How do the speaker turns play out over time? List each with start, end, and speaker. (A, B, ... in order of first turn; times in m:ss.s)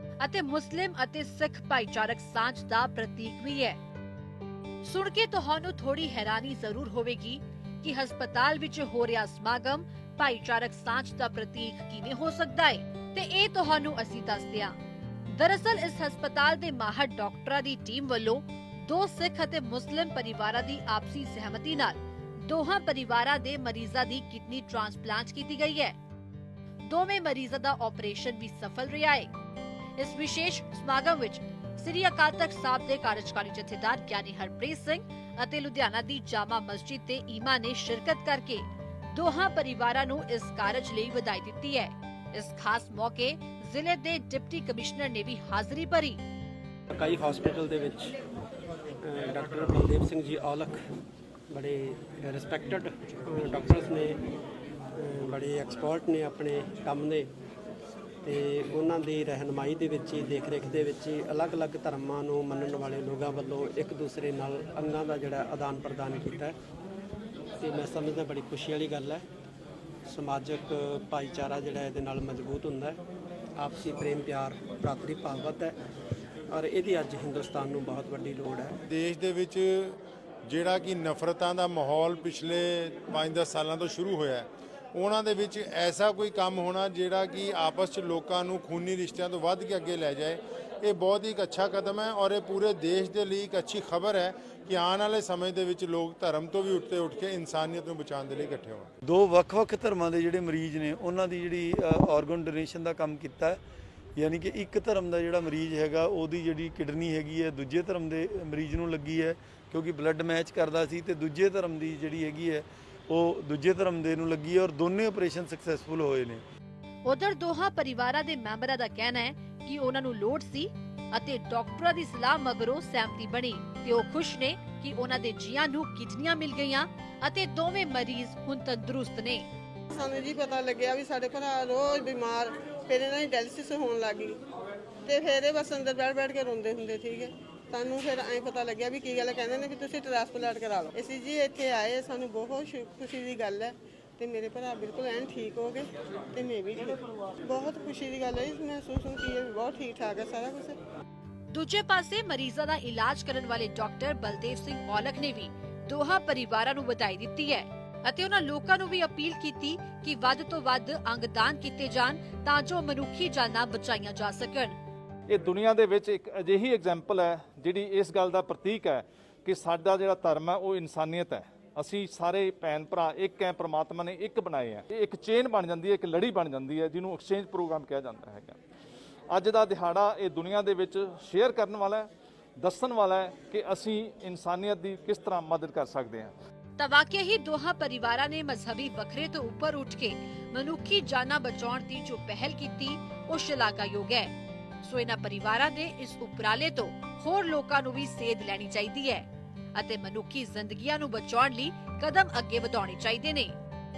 0:00.2-0:03.8 A
0:04.8-0:14.7 A
0:15.3-0:25.9 A
0:26.8-0:29.3 A
0:30.0-0:46.2 A
0:46.9-0:48.1 B
0:49.0-0:50.8 B
0:51.5-0:54.2 B
0:54.9-0:57.3 B
0:58.2-1:06.5 B
1:07.6-1:09.2 B
1:10.1-1:13.0 B
1:13.6-1:15.8 B
1:16.5-1:18.8 B
1:18.9-1:38.9 C
1:39.0-1:43.6 D
1:44.2-1:56.4 D
1:57.0-2:09.5 A
2:09.9-2:14.4 E
2:15.0-2:30.8 E
2:31.5-2:44.7 A
2:45.3-2:58.6 F
2:59.3-3:02.1 F
3:02.6-3:06.3 F
3:06.8-3:23.5 A